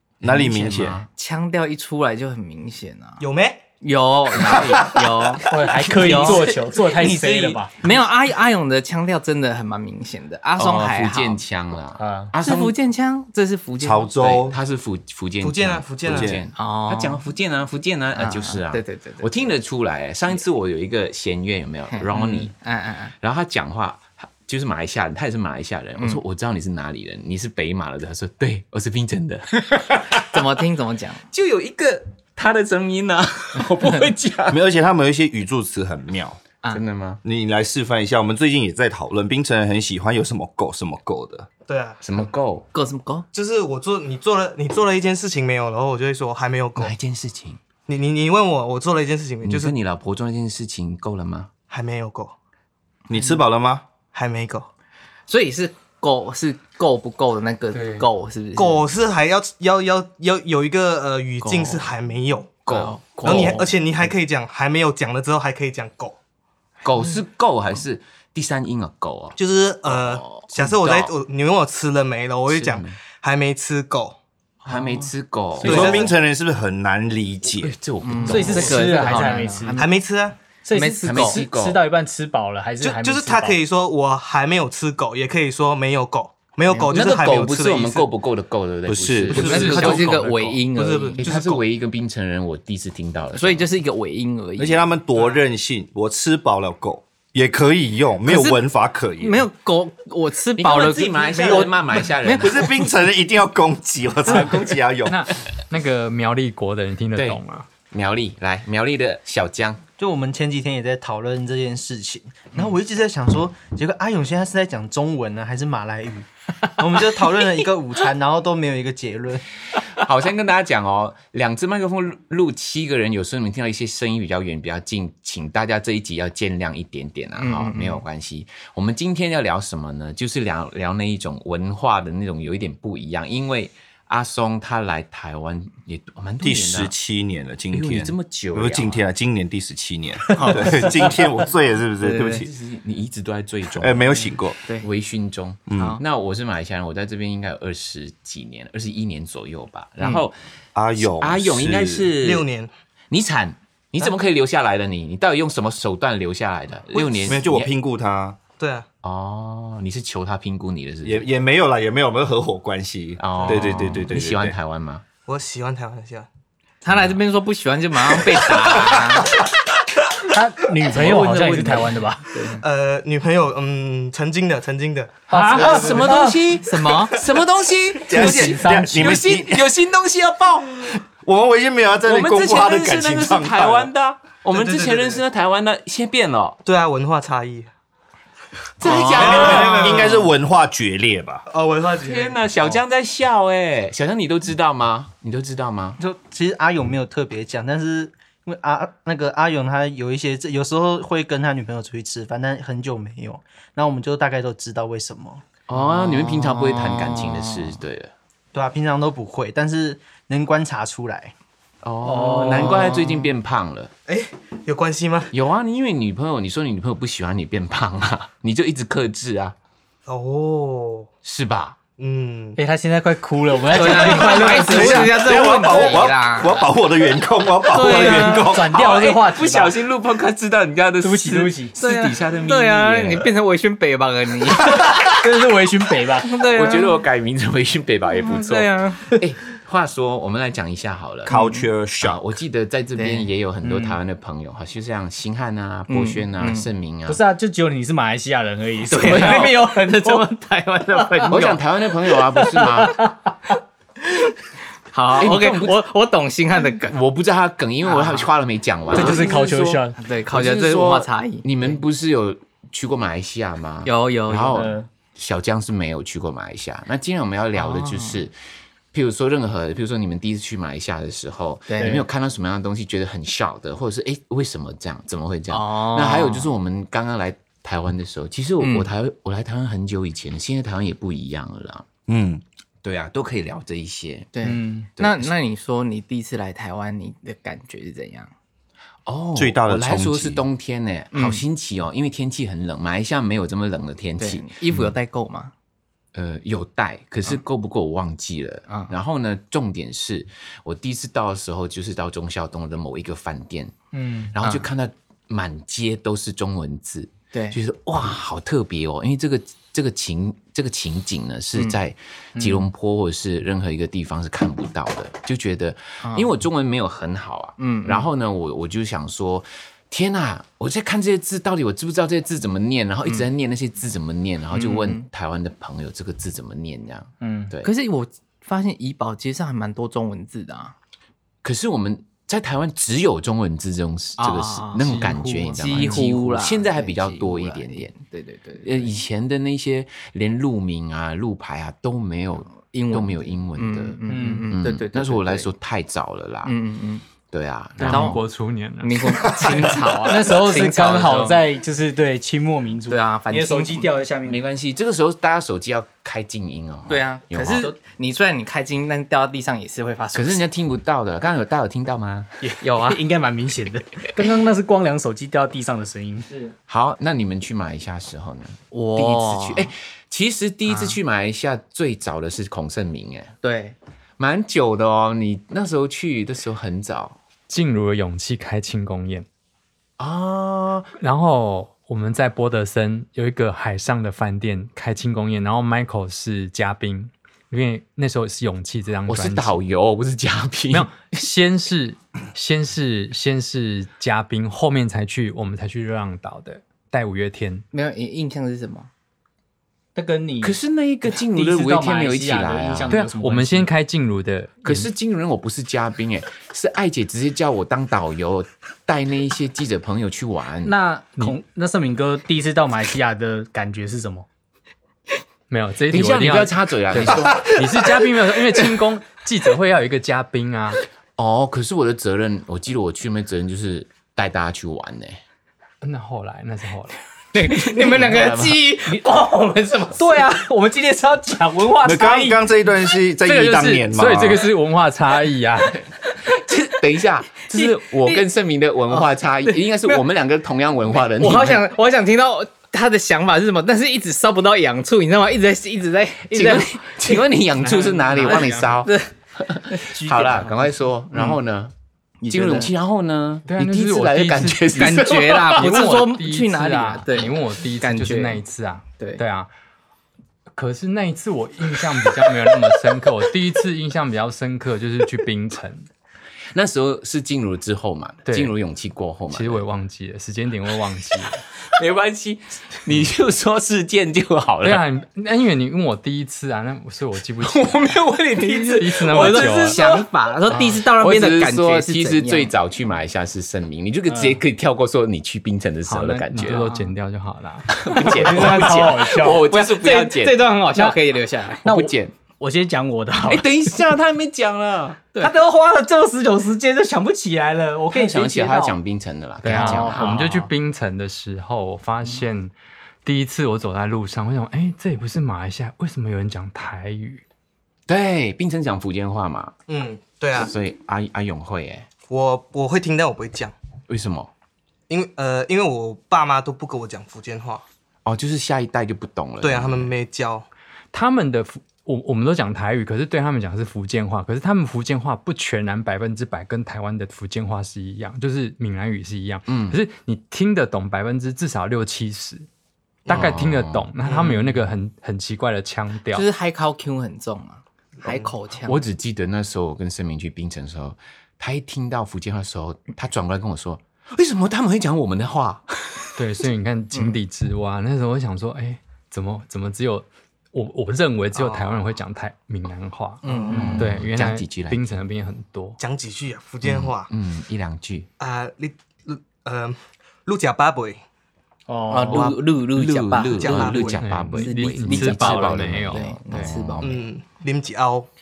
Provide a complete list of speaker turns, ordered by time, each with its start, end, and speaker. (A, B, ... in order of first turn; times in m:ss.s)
0:00.2-0:01.1 A
0:00.2-0:01.0 B
0:01.2-0:03.2 C
0:03.2-0:03.6 D
0:03.8-0:06.5 C
0:05.4-0:07.7 E
0:05.9-0:07.6 A
0:07.8-0:11.4 C
0:10.6-0:12.7 A
0:12.0-0:12.3 E
0:12.4-0:14.3 C
0:13.8-0:14.6 B
0:14.2-0:22.5 A
0:15.4-0:16.4 D
0:16.1-0:16.4 B
0:16.5-0:17.2 C
0:18.1-0:19.5 C
0:21.9-0:23.1 C
0:23.2-0:30.4 A
0:30.2-0:31.2 C
0:31.3-0:34.6 A
0:34.5-0:36.4 B
0:36.7-0:37.2 A
0:37.2-0:41.5 B
0:41.6-0:42.0 D
0:42.0-0:42.7 A
0:42.7-0:43.3 C
0:43.3-0:46.9 D
0:46.8-0:47.6 A
0:47.9-0:49.8 D
0:49.4-0:51.5 A
0:51.7-0:52.3 D
0:53.1-0:53.8 B
0:54.1-0:54.7 D
0:55.3-0:58.8 C
0:57.7-0:58.0 F
0:58.6-1:02.6 D
1:01.4-1:01.8 C
1:02.6-1:03.6 A
1:02.6-1:03.7 C
1:03.2-1:06.2 D
1:06.8-1:11.1 A
1:09.4-1:14.2 D
1:12.5-1:13.0 A
1:14.6-1:15.1 C
1:14.6-1:16.1 A
1:15.6-1:17.8 B
1:15.6-1:16.1 D
1:17.6-1:19.3 A
1:18.0-1:19.9 C
1:18.2-1:19.8 E
1:19.7-1:20.4 D
1:20.6-1:23.6 E
1:20.7-1:21.4 C
1:21.0-1:21.8 A
1:22.8-1:28.1 D
1:26.9-1:30.6 A
1:28.8-1:29.9 B
1:29.3-1:31.6 D
1:29.4-1:31.3 C
1:31.2-1:33.6 A
1:33.3-1:34.8 C
1:34.6-1:39.4 B
1:38.2-1:38.6 C
1:39.2-1:42.8 C
1:40.6-1:42.7 A
1:42.4-1:45.2 B
1:44.3-1:44.6 C
1:45.0-1:47.7 F
1:47.2-1:49.8 A
1:50.0-1:56.2 G
1:56.8-1:59.4 G
1:56.8-1:57.7 E
1:59.7-2:16.9 A
2:07.4-2:08.0 C
2:16.4-2:22.5 B
2:17.7-2:19.0 A
2:20.3-2:21.1 C
2:20.7-2:21.0 A
2:22.0-2:22.4 C
2:22.3-2:24.3 A
2:23.8-2:24.6 B
2:24.1-2:24.9 C
2:24.8-2:30.4 A
2:25.7-2:26.0 B
2:30.7-2:32.1 B
2:31.0-2:32.4 A
2:32.2-2:32.7 D
2:33.1-2:37.7 A
2:37.2-2:38.4 B
2:38.6-2:38.9 D
2:39.0-2:41.2 A
2:41.0-2:44.6 B
2:43.2-2:45.0 A
2:43.4-2:43.6 D
2:45.2-2:46.3 D
2:46.8-2:49.3 C
2:46.9-2:47.2 A
2:50.3-2:52.3 E
2:50.9-2:51.9 A
2:52.3-2:52.6 C
2:52.6-2:56.1 D
2:55.3-2:56.4 E
2:55.4-3:00.9 A
2:56.6-2:57.2 C
2:58.0-2:59.7 B
2:58.1-2:59.2 E
3:01.1-3:03.9 B
3:02.0-3:06.6 A
3:04.5-3:05.2 D
3:06.6-3:07.7 D
3:08.8-3:10.1 A
3:08.8-3:09.5 C
3:08.9-3:10.3 D
3:08.9-3:11.4 B
3:11.5-3:12.7 D
3:11.9-3:16.0 A
3:16.0-3:25.4 G
3:25.7-3:28.1 A
3:25.7-3:27.8 C
3:28.5-3:31.3 G
3:31.8-3:33.9 A
3:32.0-3:33.2 E
3:32.5-3:33.3 C
3:34.1-3:35.3 D
3:35.3-3:39.5 A
3:40.1-3:41.1 D
3:41.2-3:41.8 A
3:42.0-3:42.6 D
3:42.6-3:45.5 E
3:43.7-3:46.6 C
3:44.4-3:48.8 B
3:47.7-3:49.7 E
3:47.7-3:48.5 C
3:48.7-3:53.3 A
3:51.0-3:51.7 E
3:51.8-3:54.9 C
3:54.7-3:55.1 A
3:55.0-3:56.3 E
3:56.2-3:57.0 C
3:56.4-4:01.4 A
3:58.1-3:59.1 C
4:01.2-4:02.2 B
4:01.3-4:01.6 C
4:02.0-4:07.2 A
4:03.0-4:03.3 C
4:03.6-4:04.0 E
4:05.9-4:06.7 C
4:07.0-4:10.3 E
4:08.9-4:11.6 C
4:09.1-4:09.5 A
4:10.9-4:11.4 E
4:11.3-4:13.0 A
4:12.0-4:13.1 E
4:14.1-4:14.3 C
4:14.9-4:16.9 C
4:15.2-4:15.8 A
4:16.8-4:28.3 A
4:17.8-4:18.3 C
4:18.9-4:20.0 E
4:20.0-4:21.8 C
4:23.8-4:24.7 C
4:24.5-4:24.9 E
4:27.5-4:28.2 C
4:28.9-4:41.8 A
4:31.7-4:32.0 C
4:31.8-4:32.1 E
4:35.5-4:36.5 C
4:38.6-4:38.9 C
4:42.1-4:42.4 B
4:42.8-4:44.3 A
4:44.3-4:48.3 C
4:44.4-4:44.9 E
4:45.0-4:45.3 A
4:49.0-4:54.9 A
4:49.4-4:50.4 B
4:51.1-4:51.4 C
4:54.2-4:55.5 C
4:56.1-5:03.7 A
4:58.7-4:58.9 C
5:03.9-5:04.3 E
5:04.3-5:27.7 A
5:04.4-5:04.7 C
5:07.3-5:07.6 C
5:12.4-5:12.7 E
5:16.0-5:16.3 C
5:17.6-5:18.1 C
5:24.5-5:25.1 C
5:27.2-5:27.5 E
5:27.6-5:30.7 C
5:31.4-5:37.9 A
5:34.2-5:38.9 C
5:35.6-5:36.1 F
5:38.6-5:46.5 A
5:42.5-5:45.5 C
5:44.1-5:44.5 E
5:46.4-5:47.0 C
5:47.3-5:48.2 A
5:47.8-5:49.7 F
5:47.8-5:48.2 C
5:48.8-5:51.4 C
5:49.6-5:54.4 E
5:52.9-5:53.9 C
5:54.2-5:57.7 A
5:56.9-6:00.4 C
6:00.1-6:02.3 A
6:02.4-6:06.3 E
6:02.6-6:03.0 C
6:06.7-6:13.3 A
6:08.7-6:09.7 C
6:10.7-6:11.0 C
6:13.4-6:13.8 C
6:14.2-6:17.2 A
6:17.5-6:19.2 F
6:20.0-6:20.9 A
6:21.0-6:29.6 F
6:29.1-6:30.9 A
6:30.7-6:37.6 F
6:37.7-6:38.9 C
6:39.9-6:43.7 E
6:40.4-6:43.0 A
6:42.9-6:44.9 F
6:44.6-6:50.7 A
6:50.6-6:54.2 E
6:55.5-7:00.8 F
6:55.9-6:57.7 A
7:01.2-7:05.2 A
7:05.8-7:07.0 F
7:07.3-7:10.2 C
7:07.7-7:08.6 A
7:08.9-7:12.5 E
7:11.8-7:14.4 B
7:13.3-7:13.7 C
7:13.5-7:15.8 F
7:16.2-7:21.6 A
7:17.6-7:18.2 C
7:18.9-7:20.0 C
7:21.2-7:27.2 C
7:26.3-7:31.7 A
7:28.0-7:28.5 F
7:28.1-7:29.1 C
7:29.7-7:30.1 C
7:30.0-7:30.7 E
7:31.1-7:31.4 C
7:32.2-7:32.7 C
7:32.3-7:35.8 A
7:33.5-7:39.5 F
7:34.7-7:38.4 C
7:40.6-7:45.9 F
7:46.5-7:49.6 A
7:48.3-7:48.5 F
7:49.3-7:51.4 F
7:51.7-7:54.8 A
7:54.6-7:57.9 F
7:57.4-8:06.7 A
7:58.5-7:59.8 F
7:59.1-8:02.5 C
8:04.1-8:04.4 E
8:05.9-8:07.8 F
8:07.7-8:10.4 A
8:08.0-8:09.5 E
8:08.4-8:11.6 C
8:10.7-8:11.0 E
8:11.6-8:13.8 E
8:11.6-8:12.1 A
8:13.3-8:15.0 A
8:15.2-8:18.8 E
8:17.9-8:20.2 A
8:19.4-8:20.5 E
8:19.4-8:19.8 C
8:19.5-8:22.5 F
8:23.0-8:27.2 F
8:27.9-8:29.5 A
8:29.7-8:30.5 D
8:30.3-8:31.9 A
8:32.1-8:33.5 D
8:33.9-8:34.3 A
8:34.9-8:37.6 D
8:38.0-8:39.9 A
8:39.4-8:40.4 D
8:40.9-8:52.4 F
8:49.5-8:49.8 A
8:53.1-8:56.2 F
8:53.1-8:53.9 A
8:56.1-8:58.8 C
8:58.6-9:06.1 A
9:06.2-9:15.8 F
9:11.4-9:11.7 D
9:13.2-9:13.8 C
9:13.2-9:13.6 D
9:13.5-9:13.8 E
9:13.5-9:14.9 A
9:15.8-9:17.1 D
9:16.6-9:18.1 A
9:18.2-9:21.0 D
9:21.7-9:22.3 E
9:21.9-9:27.0 C
9:22.1-9:27.0 A
9:23.4-9:24.0 D
9:24.0-9:26.2 F
9:26.8-9:28.1 D